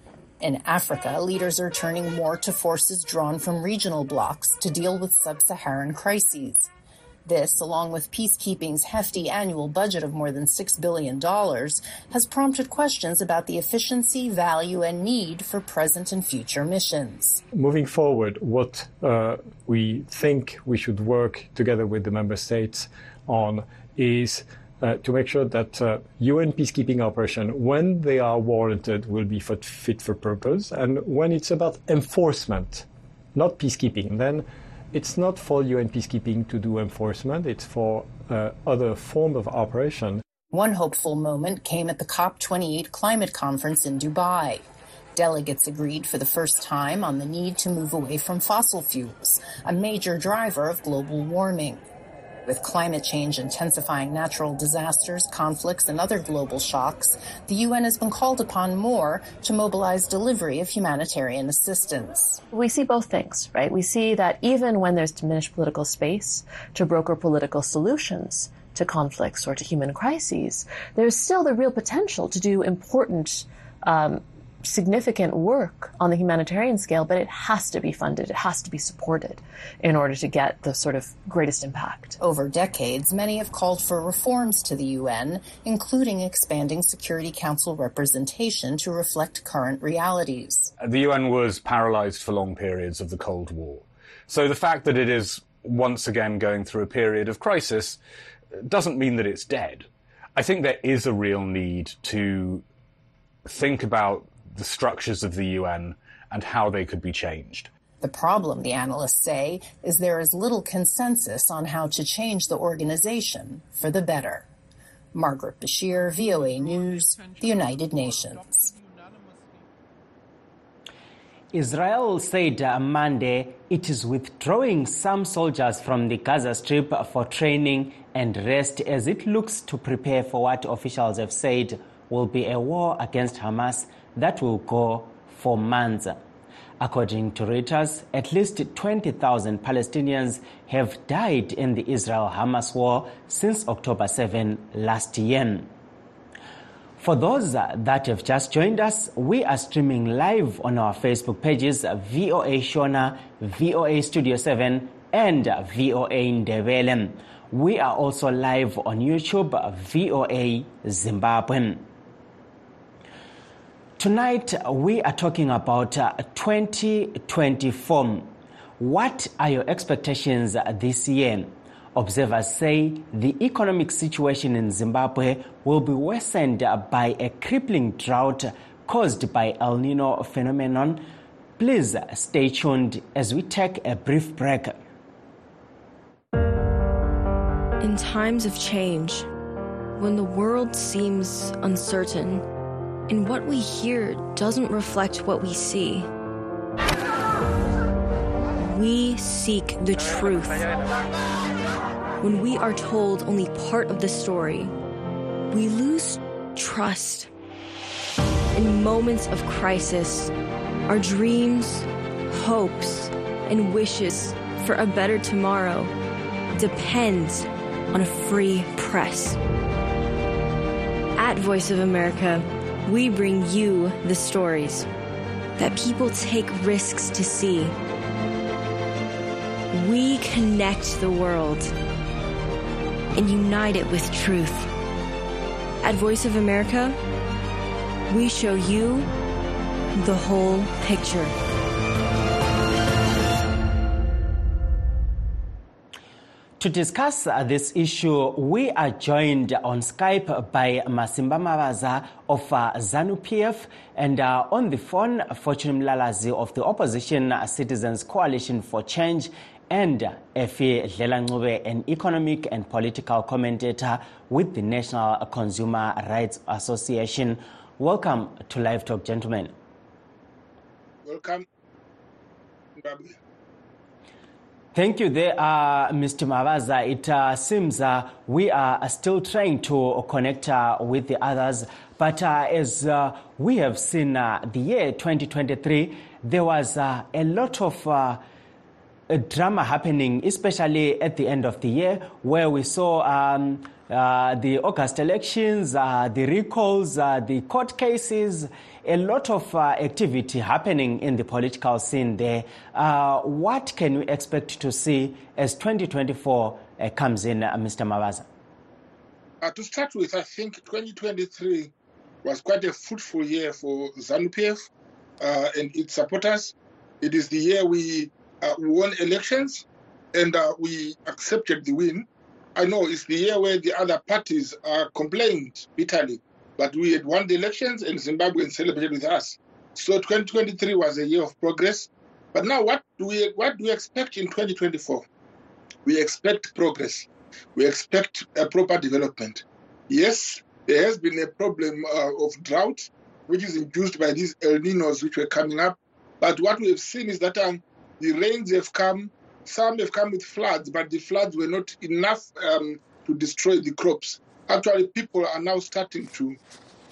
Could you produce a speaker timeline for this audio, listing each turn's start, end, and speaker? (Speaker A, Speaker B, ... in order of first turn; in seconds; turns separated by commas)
Speaker A: 0.4-6.7, Speaker A: 7.2-17.4, Speaker B: 17.5-40.2, Speaker A: 40.5-51.8, Speaker A: 52.5-62.4, Speaker C: 62.5-82.2, Speaker A: 82.2-90.7, Speaker D: 90.8-98.0, Speaker D: 98.5-102.7, Speaker D: 103.5-107.7, Speaker A: 108.0-114.5, Speaker A: 115.1-118.7, Speaker E: 121.5-136.2, Speaker E: 136.8-145.7, Speaker E: 147.0-161.9, Speaker E: 164.0-181.1, Speaker E: 181.6-184.8, Speaker F: 187.8-189.3, Speaker F: 190.0-192.4, Speaker F: 193.1-196.1, Speaker F: 198.6-200.7, Speaker F: 202.2-204.7, Speaker F: 205.5-207.3, Speaker F: 208.5-210.3, Speaker F: 210.9-215.9, Speaker F: 216.6-219.4, Speaker F: 221.2-224.9, Speaker F: 225.6-227.7, Speaker F: 229.7-231.7, Speaker F: 233.2-234.7, Speaker F: 235.8-237.0, Speaker F: 238.1-239.1, Speaker F: 240.0-241.3, Speaker E: 246.6-269.5, Speaker G: 271.0-271.5, Speaker G: 272.8-273.2, Speaker E: 274.8-288.2, Speaker E: 289.1-308.3, Speaker G: 309.4-311.7, Speaker G: 312.2-314.6, Speaker G: 315.2-335.1, Speaker G: 335.9-356.4